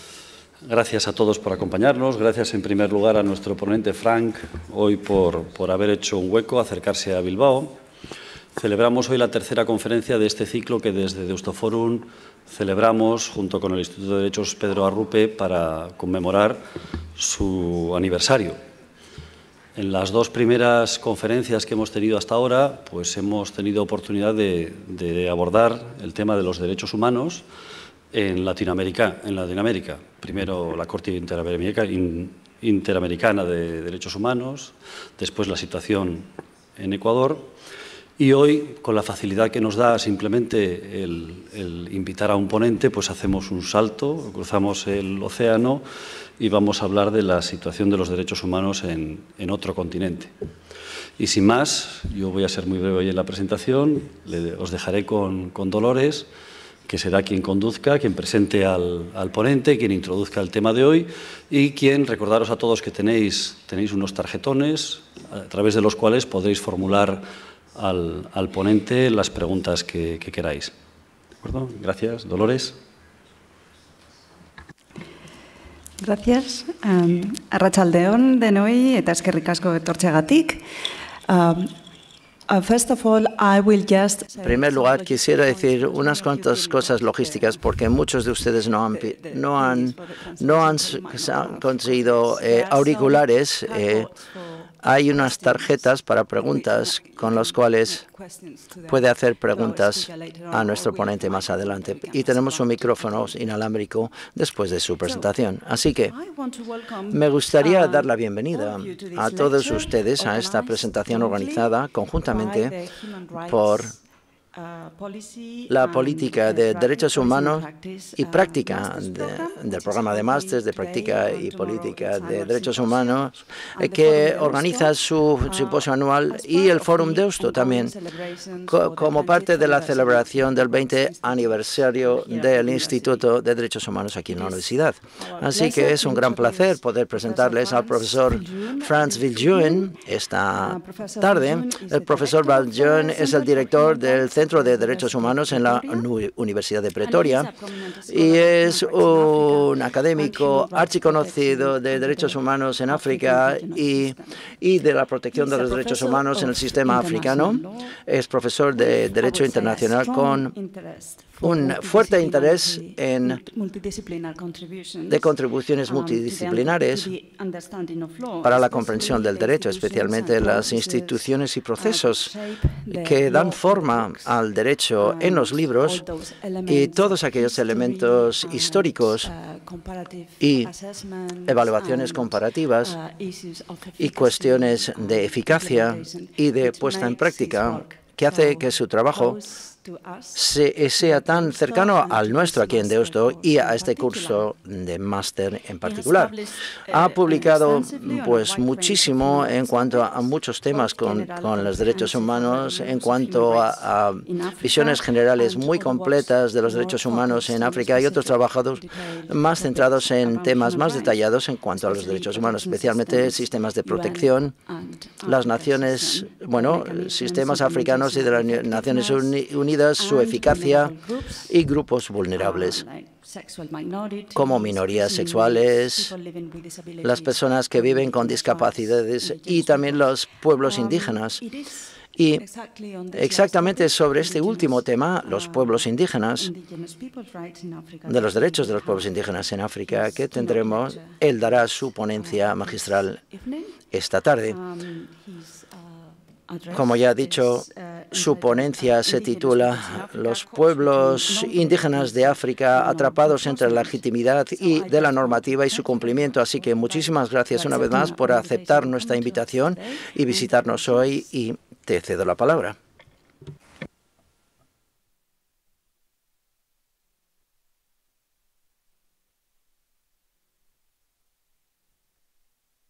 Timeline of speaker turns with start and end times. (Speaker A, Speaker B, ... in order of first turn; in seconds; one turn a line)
Speaker A: 0.6-7.8
Speaker A: 8.5-16.6
Speaker A: 17.1-18.6
Speaker A: 19.8-27.4
Speaker A: 28.1-37.5
Speaker A: 38.2-45.8
Speaker A: 46.4-50.3
Speaker A: 51.2-56.3
Speaker A: 56.9-70.7
Speaker A: 71.4-72.8
Speaker B: 76.0-80.6
Speaker B: 81.3-81.7
Speaker B: 82.5-87.7
Speaker C: 84.4-94.1
Speaker B: 88.9-103.5
Speaker C: 94.8-98.0
Speaker C: 98.9-106.1
Speaker B: 105.0-105.3
Speaker B: 105.9-114.0
Speaker C: 107.1-112.8
Speaker C: 113.4-113.9
Speaker B: 114.5-133.3
Speaker C: 115.7-127.9
Speaker C: 128.7-147.5
Speaker B: 134.3-134.6
Speaker B: 135.2-146.1
Speaker B: 147.0-154.4
Speaker C: 148.1-160.5
Speaker B: 155.3-158.0
Speaker B: 158.7-174.4
Speaker C: 161.4-163.4
Speaker C: 165.1-167.1
Speaker C: 168.4-176.0
Speaker B: 175.0-194.5
Speaker C: 176.6-179.3
Speaker C: 180.4-180.7
Speaker C: 181.4-182.9
Speaker C: 184.0-189.4
Speaker C: 190.3-214.5
Speaker B: 195.8-211.2
Speaker B: 211.8-219.3
Speaker C: 215.2-222.8
Speaker B: 219.9-221.5
Speaker B: 222.3-239.2
Speaker C: 224.3-226.1
Speaker C: 227.0-231.4
Speaker C: 232.2-232.4
Speaker C: 233.1-236.5
Speaker C: 238.1-243.2
Speaker B: 239.8-243.8
Speaker C: 243.9-244.6
Speaker B: 244.4-261.2
Speaker C: 246.7-262.8